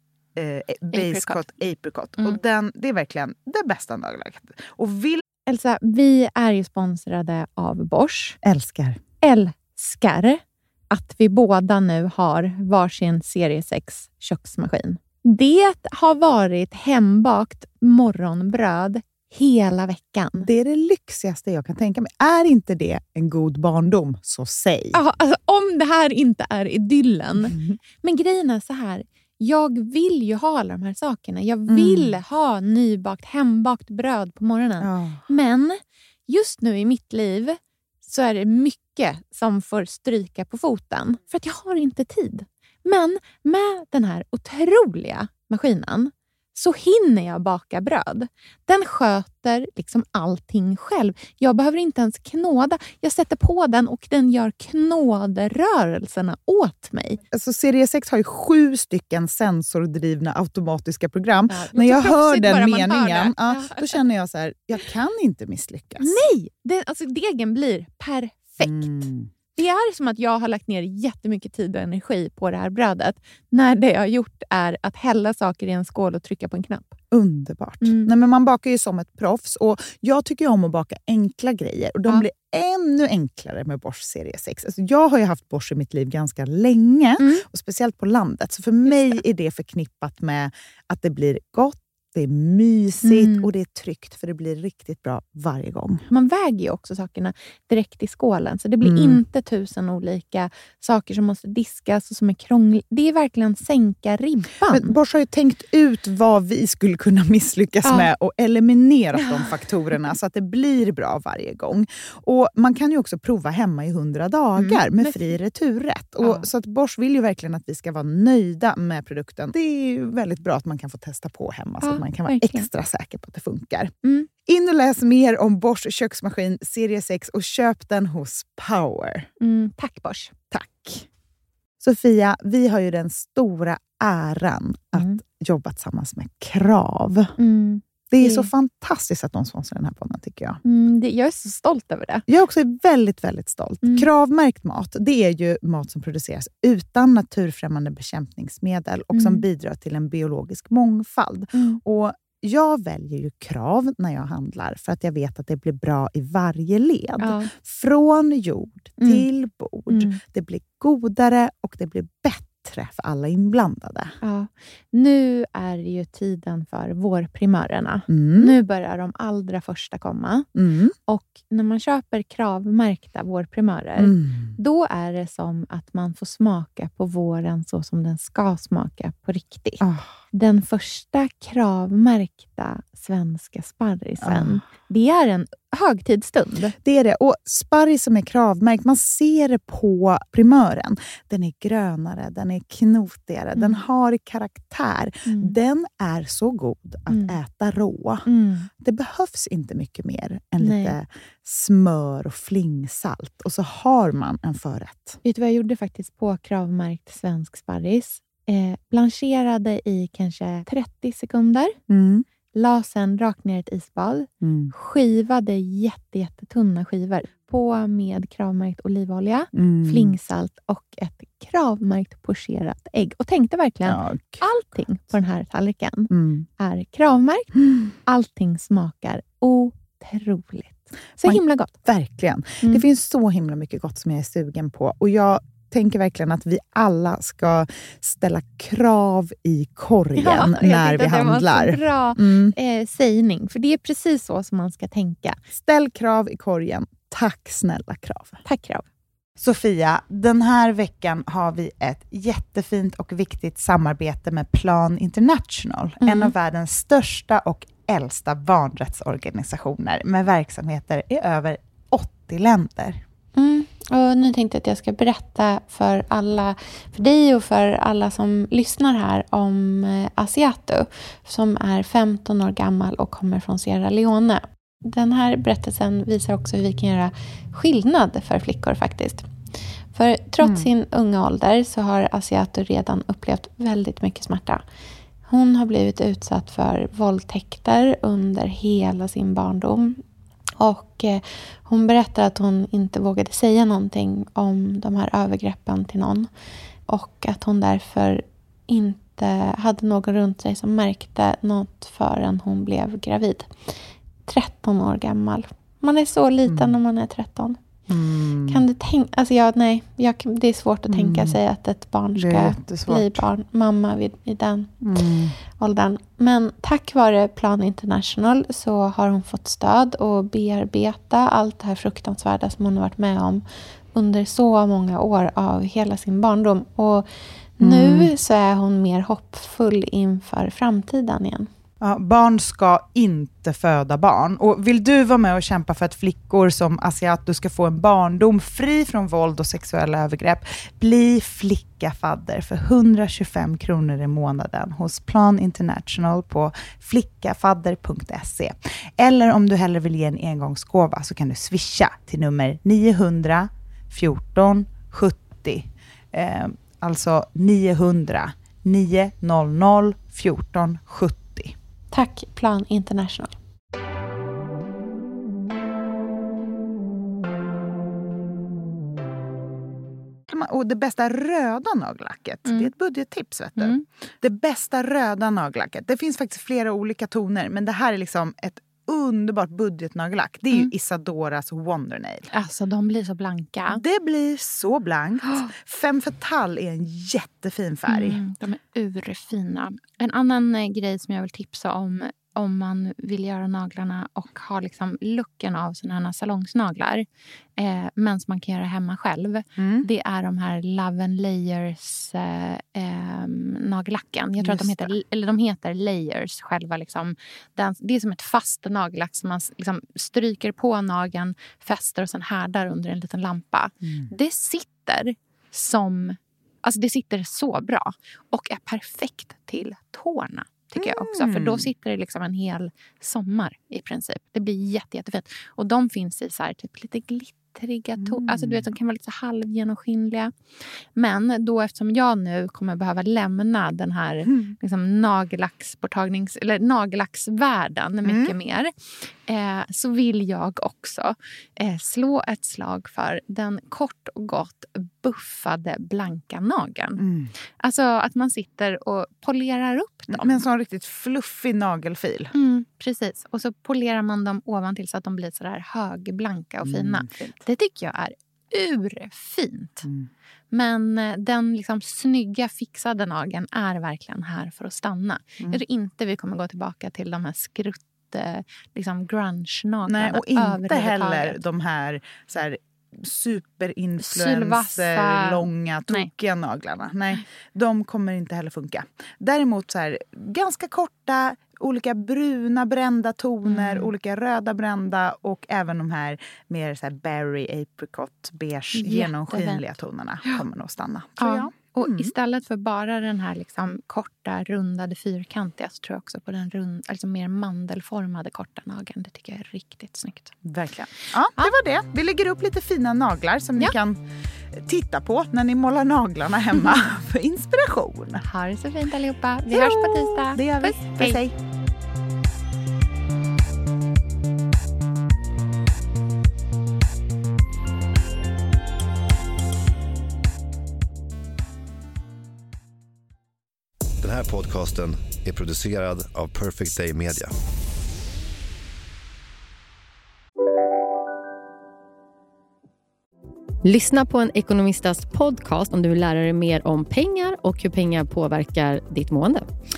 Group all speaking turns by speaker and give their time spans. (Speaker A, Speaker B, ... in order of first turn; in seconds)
Speaker A: 0.3-5.2, 8.4-9.0, 20.4-25.0, 27.4-27.8, 31.7-32.2, 34.8-35.2, 57.3-66.2, 68.6-69.3, 77.1-96.0, 98.8-99.2, 104.7-123.9, 124.5-129.3, 130.5-131.1, 131.8-137.3, 138.1-140.6, 142.3-164.2, 168.1-168.6, 170.5-170.9, 174.0-174.5, 179.8-180.1, 184.2-184.6, 186.8-198.2, 198.8-205.2, 211.9-212.2, 214.4-214.7, 219.5-220.2, 223.8-224.4, 226.1-226.4, 231.2-242.5, 245.5-248.4, 249.4-263.0, 280.4-280.7, 306.4-306.8, 307.9-308.6, 310.9-311.4, 312.1-313.2, 314.8-315.3, 327.6-328.1, 331.8-361.5, 370.3-382.3, 383.7-388.2, 399.6-399.9, 404.4-404.9, 420.8-421.7, 428.0-428.6, 434.3-434.5, 438.0-438.3, 447.0-447.3, 450.1-452.3, 456.6-457.4, 459.8-460.1, 469.9-492.1, 500.4-504.0, 504.6-508.2, 509.5-511.4
Speaker B: 0.9-1.4, 5.5-8.4, 9.2-20.5, 24.9-57.2, 61.5-64.0, 66.0-77.0, 77.8-78.1, 87.2-87.4, 88.9-89.2, 93.0-93.5, 96.1-105.0, 107.8-108.1, 109.1-109.5, 114.6-115.4, 116.2-116.5, 121.8-122.7, 124.0-124.3, 129.4-130.3, 137.4-138.5, 140.6-142.2, 149.1-149.4, 151.5-151.8, 157.2-157.5, 159.0-159.3, 159.9-160.2, 164.2-170.5, 171.1-186.8, 193.6-193.8, 195.2-195.6, 197.1-197.4, 198.2-198.7, 200.6-200.9, 205.2-211.8, 212.5-227.5, 228.0-231.8, 240.2-245.4, 248.4-248.8, 256.0-256.3, 263.3-279.2, 279.9-284.6, 285.2-290.0, 290.6-296.3, 296.9-303.5, 304.2-307.6, 308.5-314.7, 315.6-331.5, 361.9-363.3, 372.4-372.7, 373.6-373.8, 382.3-383.8, 387.9-397.1, 397.6-430.3, 430.9-438.7, 439.3-447.0, 447.6-450.4, 452.3-459.9, 460.5-471.4, 474.0-476.1, 483.4-483.9, 488.7-489.7, 491.2-500.4, 508.2-511.2
Speaker C: 524.0-527.3
Speaker D: 533.6-539.4